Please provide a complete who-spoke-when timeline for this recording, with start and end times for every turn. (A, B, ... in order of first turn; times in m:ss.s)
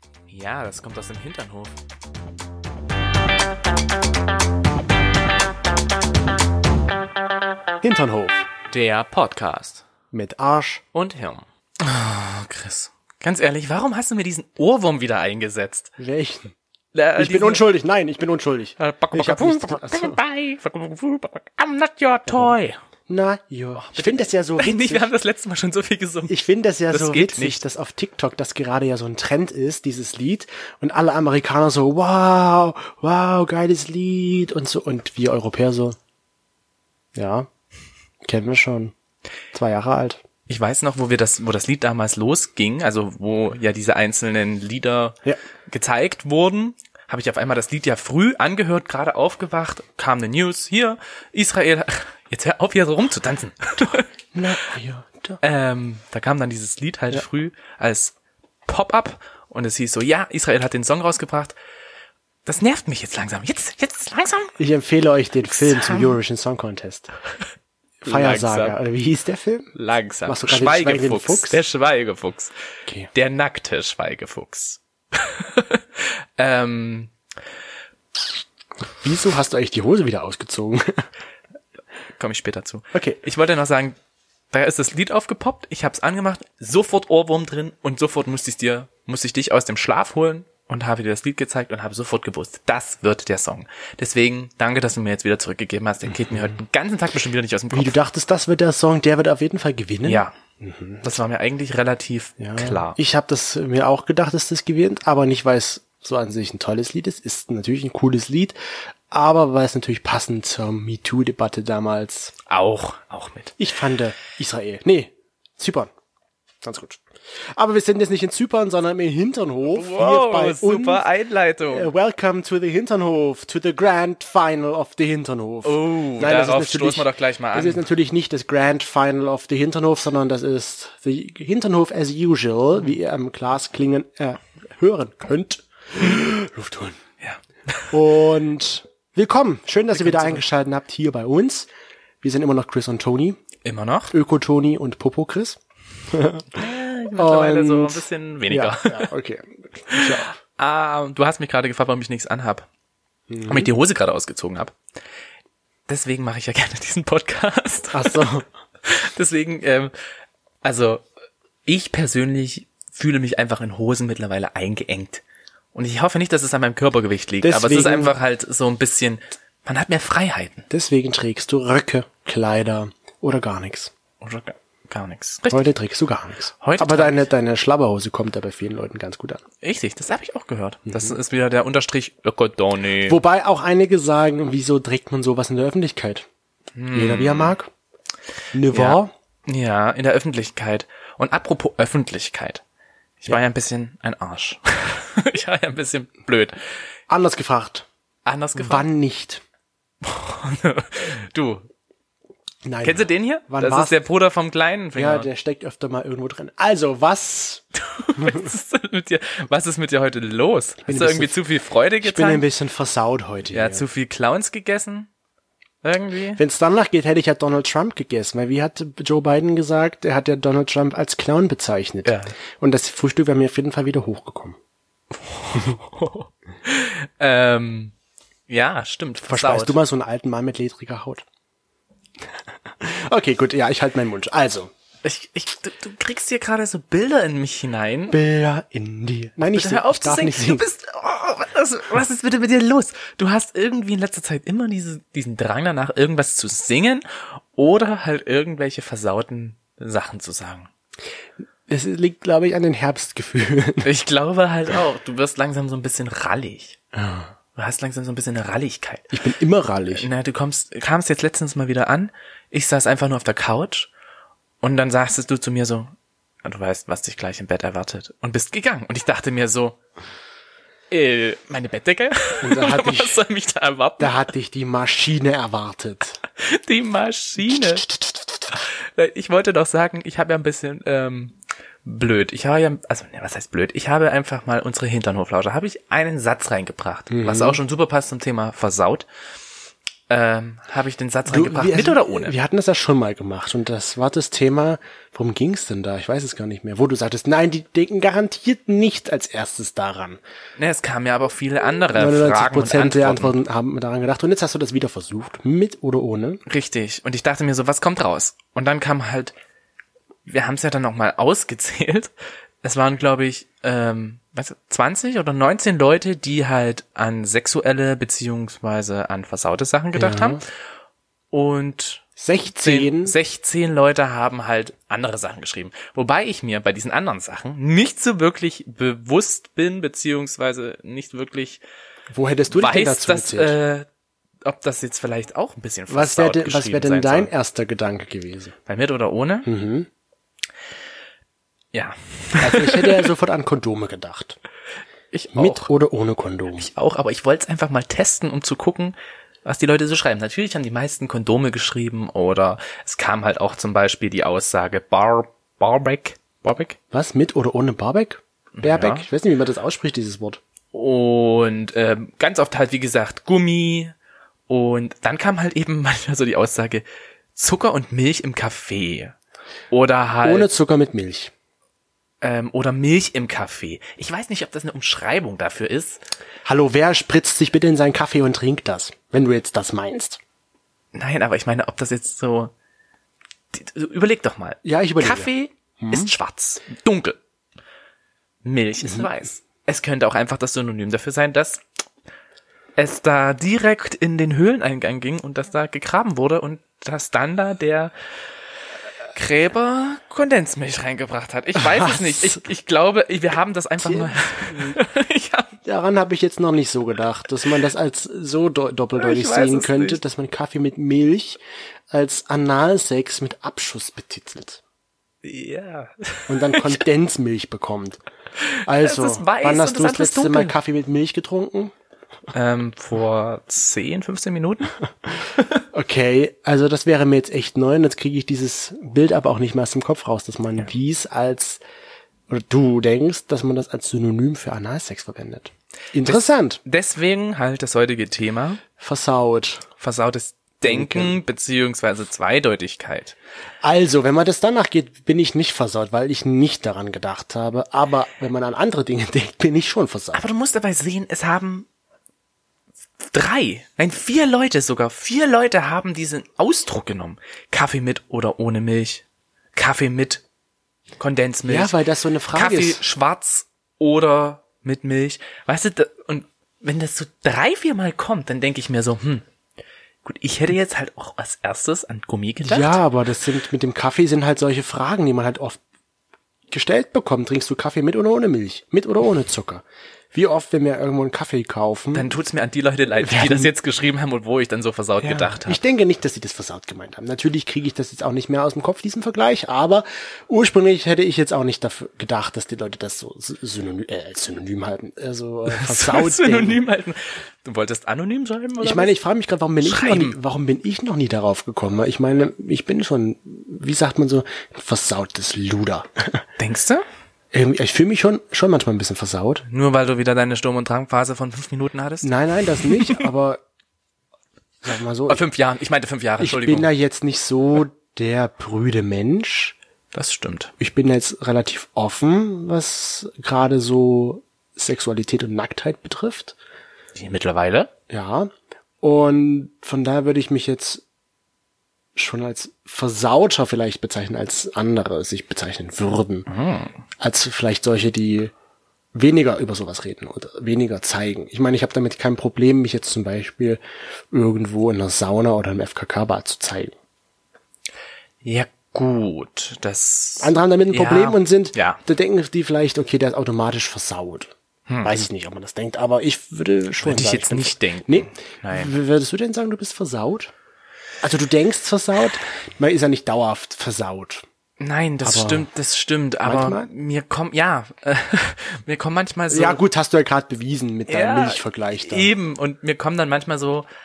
0:00.3-0:01.7 A
0:07.8-0:08.5 B
0:08.7-0:09.8 A
0:10.1-0:10.8 B
0:10.9-0:15.9 A
0:16.0-0:16.5 B
0:16.9-0:17.6 A
0:17.2-0:20.2 B
0:18.8-0:22.8 A
0:22.3-0:22.5 B
0:23.1-0:25.1 B
0:23.8-0:26.4 A
0:26.3-0:36.0 B
0:26.9-0:27.6 A
0:37.1-0:37.5 B
0:38.2-0:38.9 B
0:39.5-0:40.2 B
0:40.5-0:54.1 A
0:54.3-0:55.4 B
0:55.4-0:58.1 A
0:58.6-1:01.6 A
1:02.4-1:04.5 A
1:04.6-1:07.1 B
1:05.5-1:06.2 A
1:08.0-1:09.7 B
1:08.0-1:08.7 A
1:09.7-1:12.5 A
1:10.2-1:11.6 B
1:13.1-1:17.1 A
1:19.0-1:21.0 B
1:22.2-1:24.0 A
1:22.9-1:23.2 B
1:24.5-1:38.0 A
1:37.7-1:41.1 B
1:40.0-1:40.3 A
1:41.0-1:43.0 A
1:42.4-1:48.6 B
1:49.1-1:52.3 B
1:52.5-1:53.6 A
1:53.6-1:55.9 B
1:56.6-1:57.0 B
1:57.5-2:01.0 B
1:59.7-2:01.9 A
2:01.7-2:17.0 B
2:05.6-2:07.8 A
2:17.2-2:18.0 A
2:17.9-2:21.7 B
2:19.9-2:20.4 A
2:22.2-2:23.4 B
2:23.6-2:24.1 A
2:24.1-2:25.6 B
2:26.1-2:26.6 B
2:26.5-2:29.1 A
2:27.1-2:30.4 B
2:29.9-2:32.7 A
2:33.3-2:33.7 B
2:33.4-2:34.7 A
2:35.9-2:38.3 A
2:37.9-2:38.4 B
2:38.8-2:39.9 A
2:40.6-2:41.0 A
2:41.6-2:45.2 A
2:45.7-2:50.7 A
2:47.4-2:48.1 B
2:50.7-2:53.9 B
2:54.2-2:55.6 A
2:55.5-2:59.4 B
2:56.6-2:57.3 A
2:59.6-3:03.2 A
3:00.9-3:01.2 B
3:03.0-3:06.3 B
3:06.7-3:07.5 A
3:06.9-3:07.7 B
3:08.5-3:09.1 B
3:08.7-3:12.6 A
3:13.2-3:16.6 A
3:17.1-3:17.9 B
3:18.2-3:18.8 A
3:18.6-3:19.4 B
3:20.0-3:21.7 A
3:22.6-3:23.9 B
3:22.8-3:25.3 A
3:24.9-3:27.6 B
3:27.8-3:32.4 A
3:28.2-3:28.5 B
3:30.9-3:31.4 B
3:32.0-3:33.8 B
3:33.5-3:35.1 A
3:35.8-3:36.4 A
3:36.4-3:44.6 B
3:42.0-3:42.3 A
3:45.1-3:47.9 A
3:48.5-3:49.8 A
3:49.2-3:51.2 B
3:52.8-3:54.7 B
3:55.0-3:58.2 A
3:58.1-4:00.6 B
3:59.4-4:10.7 A
4:11.7-4:13.9 B
4:13.8-4:16.8 A
4:16.9-4:17.3 B
4:17.6-4:19.1 A
4:19.1-4:20.1 B
4:19.9-4:23.9 A
4:24.6-4:25.9 A
4:26.4-4:29.8 A
4:30.9-4:34.1 A
4:32.4-4:33.2 B
4:34.0-4:36.2 B
4:36.4-4:37.9 A
4:37.9-4:38.2 B
4:38.5-4:49.1 A
4:47.1-4:47.6 B
4:50.1-4:52.3 A
4:51.3-5:00.2 B
5:00.6-5:03.3 A
5:01.9-5:06.4 B
5:06.4-5:09.3 A
5:10.3-5:20.4 A
5:19.9-5:20.4 B
5:21.3-5:22.0 A
5:22.2-5:23.2 B
5:22.6-5:31.6 A
5:32.1-5:33.6 B
5:32.5-5:33.9 A
5:34.4-5:37.3 A
5:35.9-5:38.5 B
5:38.7-5:39.5 A
5:39.4-5:39.9 B
5:41.7-5:43.0 A
5:42.4-5:44.4 B
5:45.1-5:45.6 A
5:45.3-5:46.7 B
5:46.6-5:56.8 A
5:56.9-6:00.4 B
5:58.6-5:59.0 A
6:00.7-6:03.9 A
6:04.5-6:06.8 A
6:07.3-6:09.2 A
6:09.7-6:10.5 A
6:10.2-6:11.3 B
6:12.2-6:16.0 A
6:16.4-6:20.2 B
6:20.9-6:22.5 A
6:23.5-6:27.2 A
6:24.6-6:26.1 B
6:28.4-6:31.6 A
6:32.8-6:37.9 A
6:39.1-6:45.5 A
6:41.6-6:42.4 B
6:43.8-6:44.8 B
6:45.6-6:51.4 B
6:49.0-6:50.0 A
6:51.9-6:54.6 B
6:55.2-6:56.8 A
6:56.3-6:58.0 B
6:58.4-7:00.5 A
6:58.6-7:01.7 B
7:02.3-7:04.7 A
7:05.7-7:11.6 B
7:12.3-7:16.6 B
7:16.0-7:18.6 A
7:18.8-7:19.7 B
7:19.8-7:23.2 A
7:20.6-7:21.2 B
7:23.6-7:30.2 B
7:30.1-7:31.7 A
7:33.0-7:39.0 A
7:39.5-7:40.2 A
7:41.0-7:41.7 A
7:41.5-7:42.8 B
7:42.3-7:49.2 A
7:50.0-7:52.8 A
7:52.4-7:55.6 B
7:56.5-8:02.1 B
8:01.9-8:05.6 A
8:03.0-8:03.5 B
8:05.0-8:16.6 B
8:15.5-8:18.9 A
8:18.6-8:26.2 B
8:19.6-8:20.2 A
8:26.4-8:26.8 A
8:27.3-8:29.4 B
8:29.5-8:33.1 A
8:32.0-8:33.4 B
8:34.6-8:35.2 B
8:35.1-8:36.7 A
8:36.2-8:39.6 B
8:39.9-8:40.5 A
8:40.6-8:46.4 B
8:46.9-8:47.7 A
8:47.9-8:48.3 B
8:48.8-8:50.8 B
8:52.0-8:56.3 B
8:56.3-8:56.7 A
8:57.0-8:58.3 B
8:58.9-9:06.7 B
9:08.2-9:11.8 A
9:10.2-9:20.3 B
9:16.8-9:18.7 A
9:21.0-9:24.2 B
9:24.6-9:29.6 A
9:25.0-9:25.5 B
9:26.2-9:26.7 B
9:29.3-9:32.1 B
9:30.9-9:33.6 A